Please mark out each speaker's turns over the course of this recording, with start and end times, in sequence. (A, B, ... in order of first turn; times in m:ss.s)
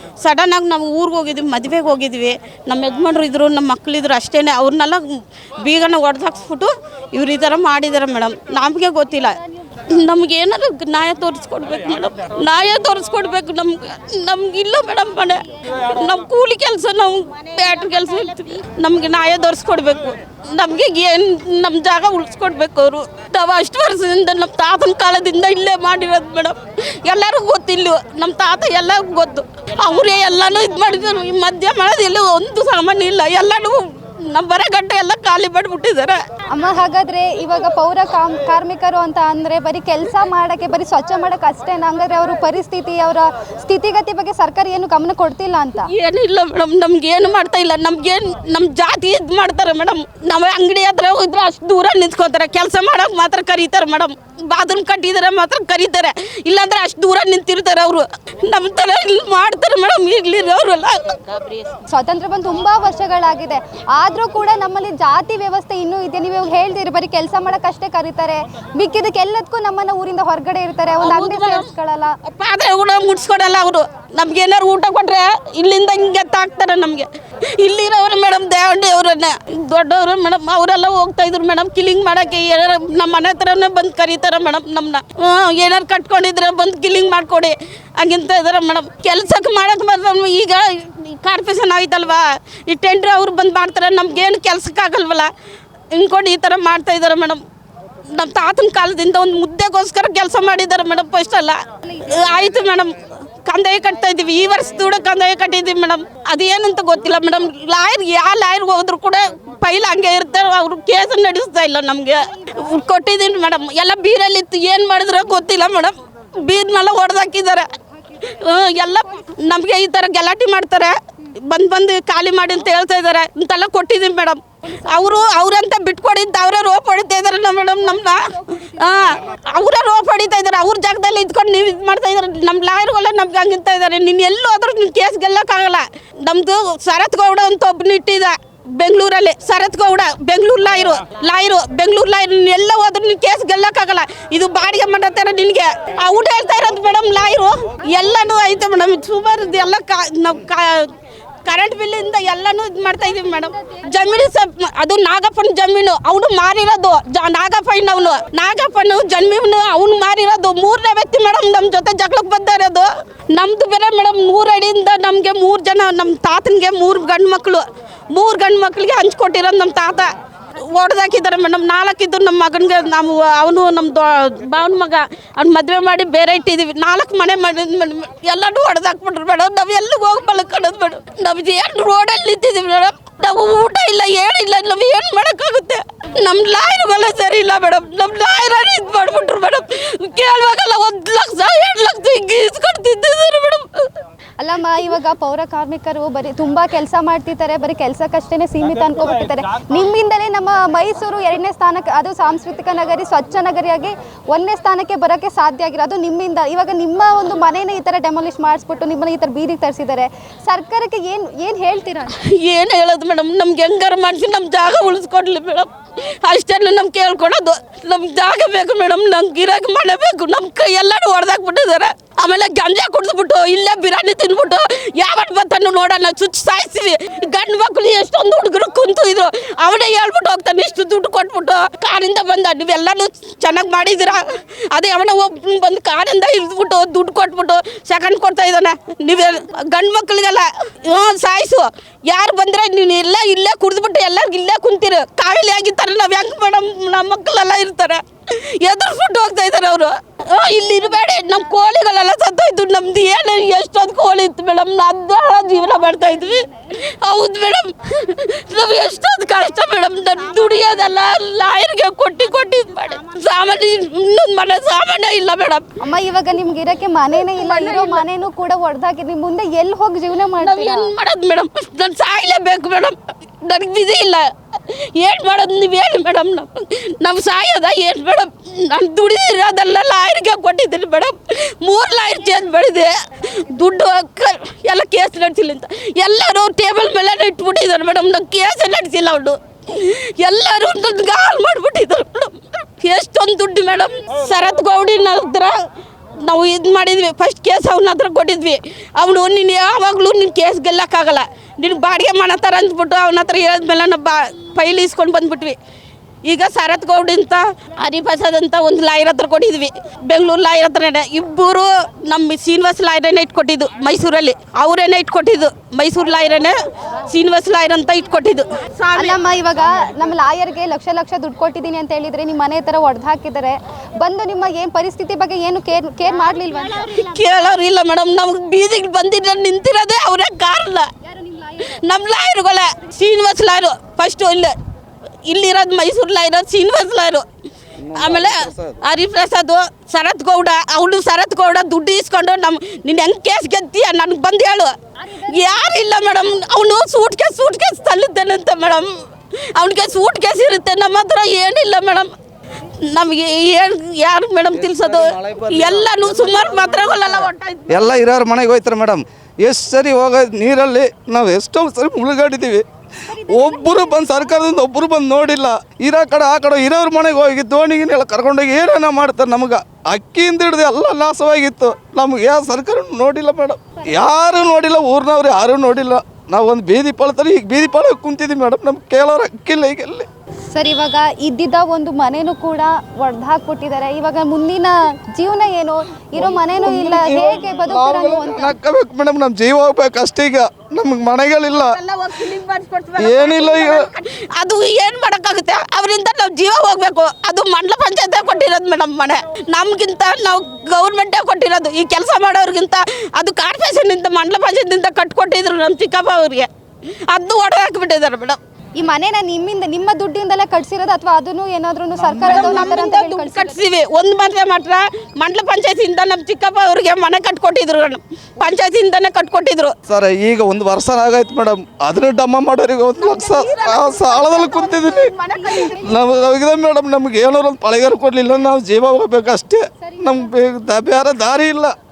0:00.2-0:05.1 A
0:05.6-0:09.4 A
0:09.9-0:33.8 A
0:34.3-0:36.2 A
0:36.5-0:45.9 B
0:45.9-1:01.4 A
1:01.9-1:12.1 B
1:11.0-1:11.7 A
1:12.2-1:35.3 A
1:35.9-1:37.4 A
1:38.1-1:57.7 A
1:58.2-2:30.9 A
2:31.4-3:13.9 A
3:14.4-3:32.1 B
3:32.2-4:16.5 A
4:17.0-4:25.6 A
4:25.8-4:30.9 B
4:27.4-4:28.0 A
4:30.4-4:55.5 A
4:56.2-5:05.6 A
5:06.2-5:16.6 A
5:17.1-5:19.2 A
5:19.0-5:26.9 B
5:26.9-5:30.9 A
5:31.5-5:34.6 A
5:35.3-5:37.2 A
5:37.8-5:38.8 C
5:37.9-5:48.9 A
5:49.6-5:52.1 A
5:52.9-5:57.9 A
5:54.5-6:20.1 C
6:20.5-6:28.5 B
6:26.1-6:31.8 C
6:31.5-6:46.5 A
6:33.0-6:33.9 C
6:47.1-6:48.4 A
6:48.8-6:53.6 B
6:52.0-6:52.8 C
6:52.2-6:59.7 A
6:59.9-7:11.7 C
7:03.0-7:05.8 A